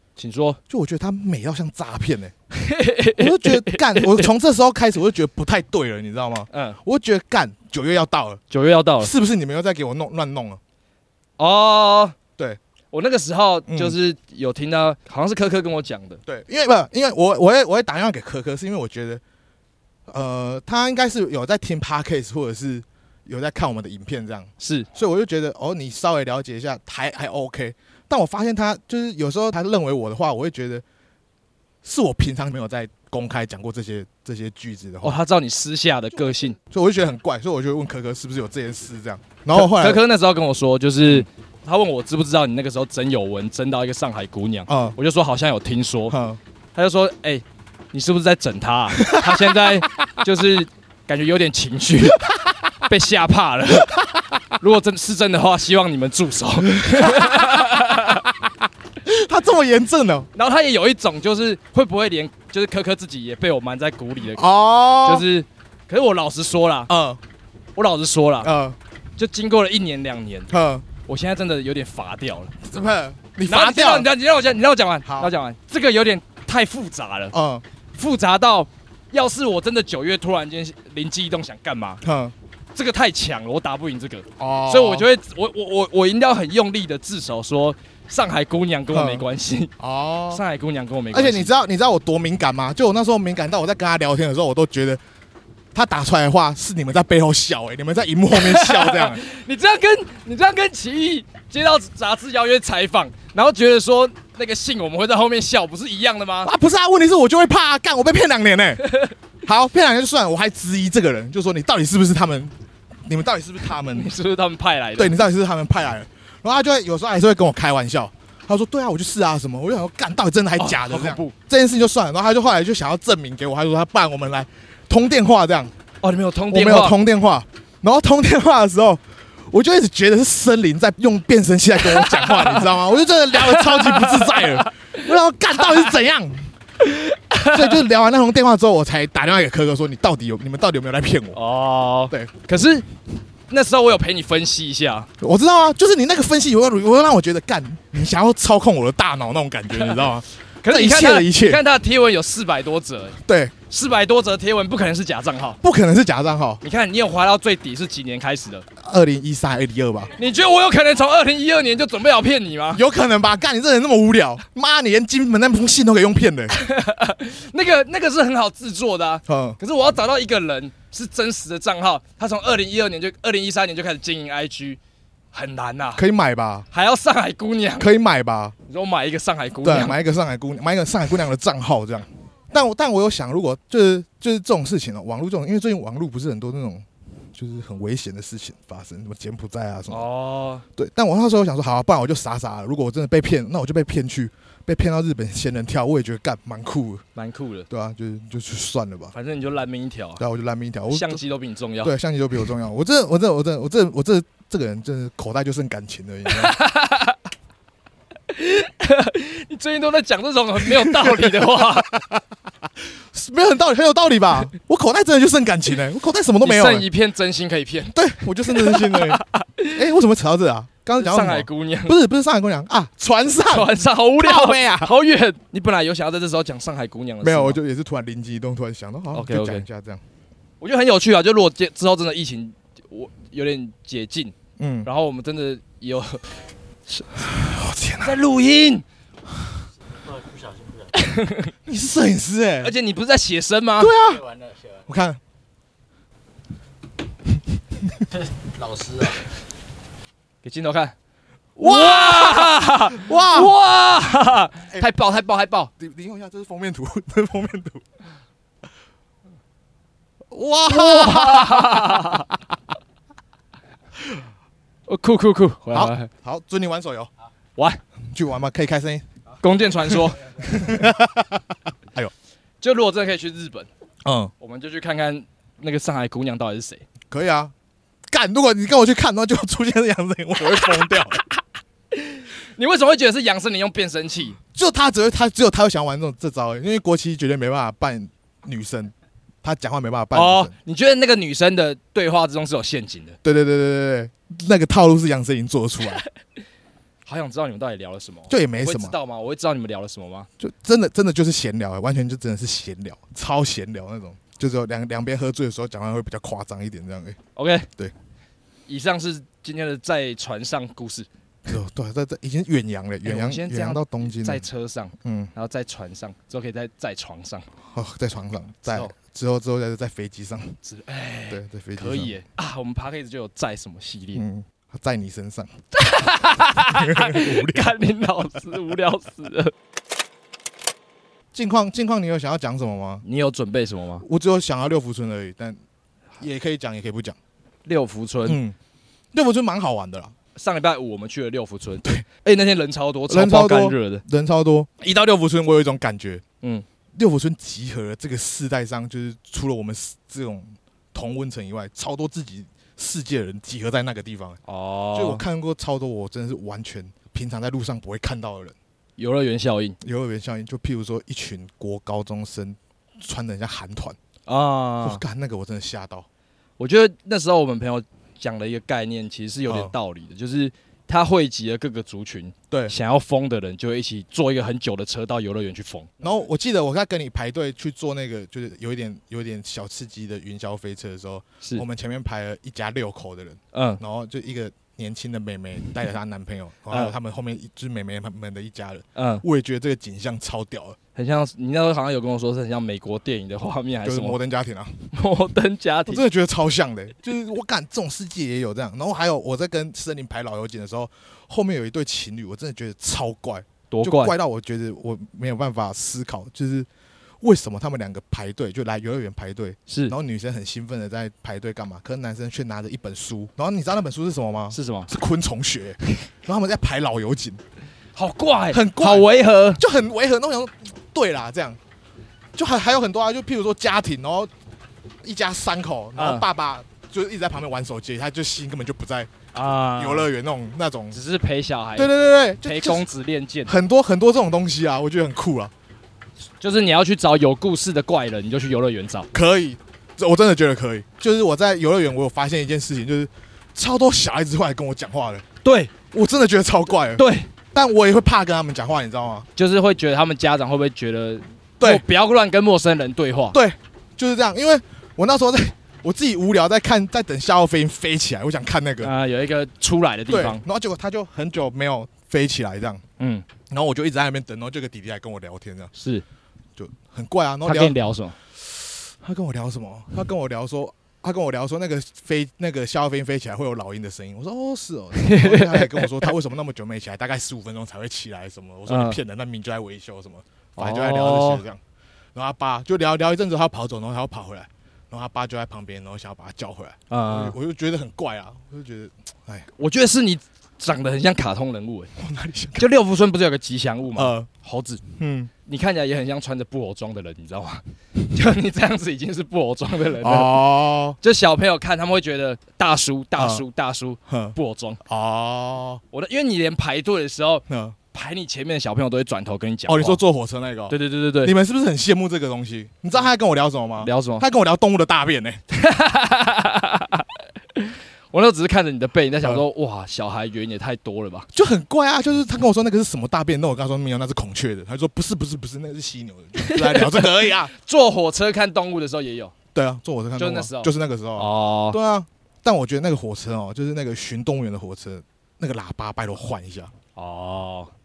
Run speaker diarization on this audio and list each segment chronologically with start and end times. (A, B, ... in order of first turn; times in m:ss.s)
0:00.2-0:00.6 A
0:00.7-0:02.3 B
0:02.5-0:04.3 A
0:03.1-0:08.4 B
0:06.5-0:06.8 A
0:08.5-0:09.1 A
0:09.0-0:10.6 B
0:11.4-0:12.2 A
0:12.9-0:16.2 A
0:13.7-0:14.0 B
0:16.2-0:19.2 B
0:20.1-0:30.8 B
0:24.6-0:24.9 A
0:31.8-0:35.2 B
0:35.0-0:36.6 A
0:36.6-0:40.0 B
0:39.5-0:46.2 A
0:41.0-0:41.3 B
0:44.7-0:45.0 B
0:46.1-0:46.4 B
0:46.7-0:52.2 A
0:49.0-0:49.9 B
0:52.0-0:52.6 B
0:52.9-0:54.0 A
0:53.9-0:54.4 B
0:54.6-0:58.2 A
0:56.7-0:58.5 B
0:59.0-1:00.3 B
1:00.3-1:06.9 A
1:04.3-1:05.2 B
1:06.9-1:07.2 B
1:07.8-1:08.5 A
1:08.4-1:08.8 B
1:09.2-1:10.5 A
1:10.5-1:10.8 B
1:11.0-1:12.5 A
1:12.6-1:14.1 B
1:13.5-1:17.3 A
1:15.0-1:15.3 B
1:17.3-1:17.6 B
1:17.9-1:22.0 A
1:22.0-1:22.3 B
1:22.7-1:29.7 A
1:24.4-1:25.1 B
1:28.9-1:29.2 B
1:29.8-1:30.4 B
1:30.3-1:31.5 A
1:31.1-1:35.0 B
1:35.7-1:39.2 B
1:38.3-1:46.5 A
1:46.4-1:48.8 B
1:48.8-1:49.1 A
1:49.4-1:52.5 B
1:53.0-1:54.1 B
1:53.9-1:55.2 A
1:55.0-2:05.7 B
2:00.6-2:01.3 A
2:06.0-2:07.0 A
2:06.5-2:16.5 B
2:11.8-2:12.7 A
2:13.3-2:14.7 A
2:16.8-2:17.8 A
2:17.5-2:21.4 B
2:21.3-2:22.9 A
2:23.5-2:25.1 A
2:25.2-2:31.6 B
2:30.6-2:35.6 A
2:33.2-2:33.5 B
2:35.6-2:36.6 B
2:36.6-2:38.6 A
2:38.8-2:40.1 B
2:40.2-2:42.8 A
2:42.7-2:46.5 B
2:46.5-2:54.8 A
2:49.3-2:49.6 B
2:55.3-2:56.0 A
2:56.0-2:56.7 B
2:56.7-2:57.9 A
2:57.8-2:58.5 B
2:58.6-3:00.0 A
2:59.6-3:10.1 B
3:09.9-3:10.6 A
3:10.8-3:17.0 B
3:17.2-3:17.7 A
3:17.7-3:19.1 B
3:19.1-3:20.2 A
3:20.2-3:21.2 B
3:20.9-3:21.9 A
3:21.8-3:26.6 B
3:26.3-3:27.2 A
3:28.3-3:31.9 A
3:30.6-3:36.8 B
3:36.4-3:39.8 A
3:37.9-3:44.9 B
3:41.0-3:42.0 A
3:43.5-3:47.6 A
3:47.2-3:50.0 B
3:49.1-3:49.6 A
3:50.6-3:56.2 A
3:54.6-3:54.9 B
3:56.9-3:57.3 A
3:57.2-3:58.2 B
3:58.0-3:58.8 A
3:59.8-4:01.2 C
4:00.9-4:01.5 A
4:01.6-4:02.7 B
4:02.6-4:03.9 A
4:03.8-4:04.2 B
4:04.0-4:04.9 C
4:04.9-4:05.2 B
4:08.0-4:09.3 C
4:10.4-4:10.9 A
4:11.6-4:15.7 A
4:11.6-4:13.5 B
4:15.8-4:17.8 B
4:20.3-4:22.2 B
4:20.7-4:22.3 A
4:24.9-4:26.1 A
4:25.7-4:27.1 B
4:28.1-4:29.0 B
4:29.4-4:30.6 A
4:29.9-4:32.1 B
4:32.6-4:33.7 A
4:34.0-4:34.3 B
4:34.4-4:36.8 A
4:37.1-4:37.5 B
4:38.1-4:41.2 B
4:40.5-4:41.2 A
4:41.9-4:44.4 A
4:44.5-4:50.5 B
4:50.1-4:53.2 A
4:53.2-4:56.0 B
4:57.0-5:00.3 A
4:58.3-4:59.0 B
5:00.4-5:07.2 B
5:07.4-5:07.7 A
5:08.7-5:11.1 A
5:11.4-5:14.5 B
5:13.0-5:17.5 A
5:15.0-5:15.3 B
5:17.7-5:20.6 B
5:18.7-5:18.9 A
5:20.6-5:24.2 A
5:21.3-5:22.2 B
5:24.1-5:25.5 B
5:25.7-5:29.5 A
5:26.6-5:27.8 B
5:31.3-5:33.0 B
5:33.0-5:34.0 A
5:34.0-5:35.6 B
5:36.2-5:37.2 B
5:37.6-5:38.4 A
5:38.2-5:38.6 B
5:39.1-5:40.1 B
5:40.3-5:44.0 A
5:43.1-5:46.2 B
5:47.0-5:54.4 B
5:54.4-5:55.2 A
5:54.9-5:58.6 B
5:59.0-5:59.8 A
5:59.8-6:04.0 B
6:04.2-6:05.0 A
6:04.8-6:06.0 B
6:06.6-6:15.9 A
6:09.5-6:09.7 B
6:16.0-6:30.8 B
6:23.5-6:23.8 A
6:29.0-6:29.2 A
6:30.9-6:34.2 A
6:33.8-6:34.9 B
6:34.9-6:36.0 A
6:35.9-6:46.7 B
6:43.7-6:44.1 A
6:47.2-6:57.4 B
6:49.7-6:49.9 A
6:54.5-6:54.9 A
6:57.9-6:59.6 A
6:58.5-7:01.6 B
7:02.3-7:04.3 B
7:05.0-7:09.1 B
7:06.0-7:06.2 A
7:09.3-7:10.1 A
7:09.7-7:11.0 B
7:10.9-7:13.6 A
7:11.8-7:12.8 B
7:13.5-7:15.5 B
7:16.4-7:19.1 A
7:19.1-7:25.2 B
7:25.4-7:25.7 A
7:25.9-7:29.3 B
7:26.9-7:27.3 A
7:29.4-7:33.4 A
7:31.6-7:31.8 B
7:33.3-7:38.9 B
7:38.8-7:40.4 A
7:40.1-7:42.8 B
7:43.0-7:43.2 A
7:43.5-7:45.7 B
7:45.8-7:46.0 A
7:46.6-7:47.8 B
7:47.4-7:48.2 A
7:48.4-8:01.6 B
7:55.0-7:56.1 A
7:58.7-7:59.0 A
8:00.6-8:01.4 A
8:02.1-8:09.5 B
8:06.9-8:07.3 A
8:09.6-8:11.9 A
8:12.0-8:12.7 B
8:12.6-8:14.8 A
8:13.9-8:14.3 B
8:15.0-8:15.3 B
8:15.4-8:24.8 A
8:20.0-8:21.0 B
8:23.2-8:23.4 B
8:24.1-8:24.3 B
8:24.8-8:25.8 B
8:25.9-8:30.0 A
8:27.5-8:27.8 B
8:29.6-8:35.4 B
8:30.7-8:31.3 A
8:33.8-8:34.2 A
8:35.5-8:41.3 A
8:41.3-8:47.5 B
8:46.4-8:49.3 A
8:49.5-8:56.7 B
8:50.2-8:51.8 A
8:57.0-8:57.7 A